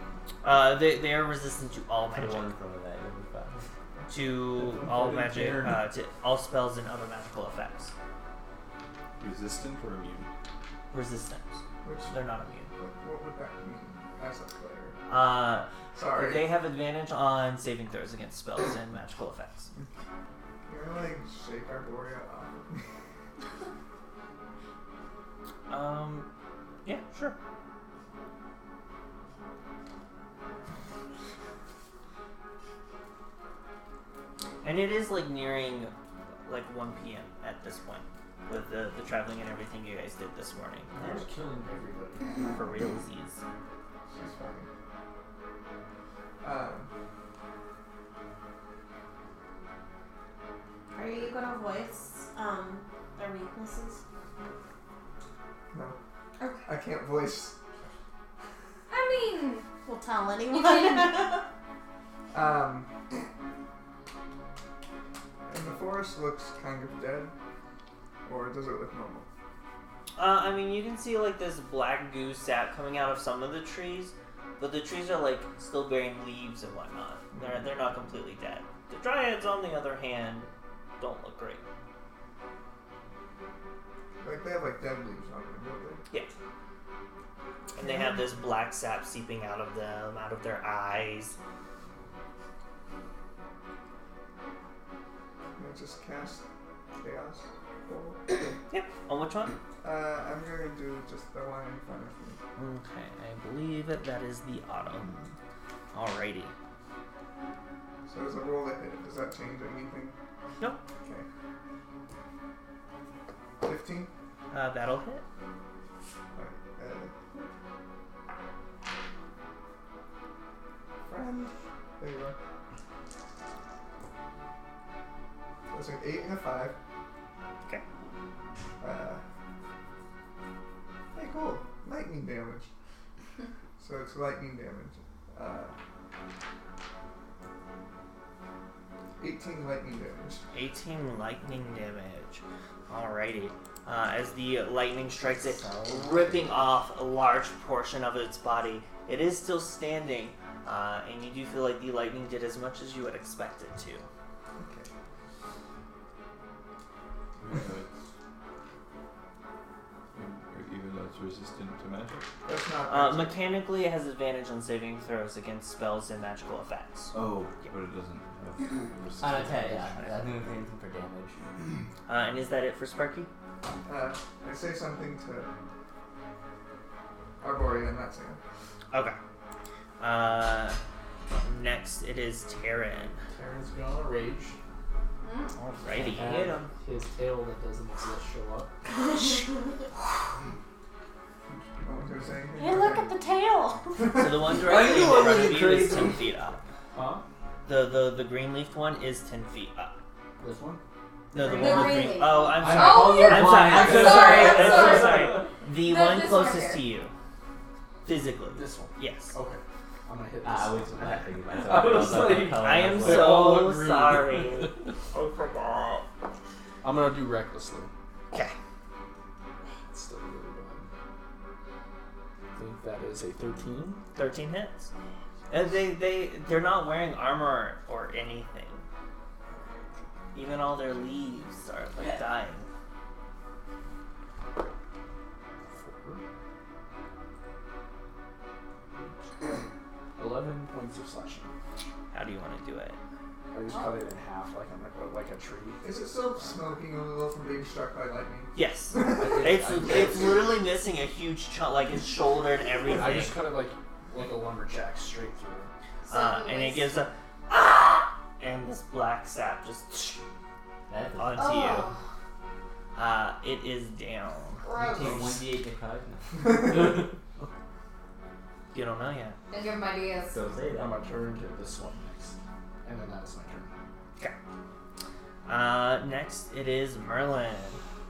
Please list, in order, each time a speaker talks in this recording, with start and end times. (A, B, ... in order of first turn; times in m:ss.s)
0:00.4-0:02.5 A
0:02.1-0:03.6 B
0:04.1-0:07.9 A
0:04.5-0:05.9 C
0:09.2-0:10.3 D
0:10.9-0:12.7 A
0:11.8-0:12.2 E
0:12.7-0:15.0 E
0:15.1-0:19.7 A
0:15.9-0:16.5 E
0:20.7-0:22.8 E
0:25.7-0:26.3 A
0:26.8-0:27.4 A
0:34.6-0:35.9 A
0:36.4-0:41.3 A
0:40.9-0:42.7 C
0:42.4-0:43.4 A
0:44.1-0:44.7 E
0:46.4-0:46.9 E
0:51.0-0:54.0 F
0:55.7-0:56.0 E
0:56.4-0:56.7 G
0:56.6-0:57.6 E
0:58.9-0:59.7 G
0:59.8-1:01.4 F
1:00.5-1:01.3 G
1:02.3-1:02.9 E
1:05.5-1:07.3 E
1:08.2-1:09.3 E
1:10.2-1:21.6 A
1:24.2-1:26.0 E
1:27.7-1:31.4 A
1:27.8-1:28.3 E
1:35.6-1:36.4 E
1:37.0-1:38.5 E
1:38.7-1:39.6 A
1:39.8-1:42.4 E
1:42.6-1:45.2 A
1:45.0-1:45.3 E
1:45.9-1:46.5 A
1:48.1-1:50.2 E
1:53.6-1:54.1 E
1:54.5-1:55.2 A
1:56.3-1:57.5 E
2:01.0-2:02.4 E
2:05.7-2:06.8 E
2:08.8-2:09.2 E
2:11.1-2:12.7 E
2:13.8-2:15.7 E
2:19.2-2:20.4 E
2:20.5-2:34.1 A
2:25.3-2:26.6 B
2:34.6-2:34.9 E
2:37.4-2:38.1 D
2:40.1-2:42.3 D
2:42.4-2:43.4 E
2:42.9-2:47.7 A
2:47.1-2:50.3 D
2:49.2-2:51.5 B
2:52.1-2:53.3 A
2:53.8-2:55.5 E
2:57.4-2:58.4 E
2:58.9-2:59.2 A
3:00.0-3:00.8 A
3:01.3-3:03.2 A
3:03.3-3:04.6 C
3:05.2-3:05.5 G
3:05.6-3:06.4 A
3:05.9-3:06.7 B
3:06.0-3:08.7 C
3:08.9-3:09.6 F
3:11.5-3:13.2 E
3:12.6-3:14.0 F
3:14.0-3:14.6 E
3:14.2-3:16.6 A
3:14.7-3:16.2 B
3:14.7-3:16.2 C
3:16.9-3:17.2 C
3:17.7-3:20.0 A
3:20.4-3:20.8 C
3:21.3-3:27.1 A
3:21.4-3:26.8 G
3:22.5-3:25.5 C
3:22.8-3:24.5 B
3:28.0-3:29.4 A
3:28.5-3:34.9 C
3:30.4-3:33.5 B
3:31.9-3:34.8 A
3:35.2-3:36.0 E
3:36.8-3:37.9 C
3:39.8-3:40.9 C
3:42.6-3:44.0 C
3:44.2-3:44.9 A
3:45.5-3:48.8 A
3:50.3-3:52.7 A
3:55.6-3:56.2 C
3:59.0-3:59.3 C
4:00.2-4:01.5 C
4:02.1-4:03.0 A
4:03.5-4:05.8 C
4:03.7-4:04.0 G
4:05.8-4:09.5 E
4:06.4-4:06.7 C
4:08.5-4:13.4 A
4:09.1-4:10.5 C
4:12.9-4:15.7 C
4:16.1-4:16.9 G
4:16.1-4:20.2 A
4:20.9-4:21.5 B
4:21.2-4:21.9 A
4:21.4-4:22.0 G
4:23.0-4:24.6 A
4:24.6-4:25.3 G
4:24.8-4:26.6 B
4:26.7-4:27.0 C
4:28.7-4:29.4 A
4:29.5-4:30.4 G
4:30.3-4:31.0 B
4:30.7-4:33.7 C
4:35.4-4:37.8 A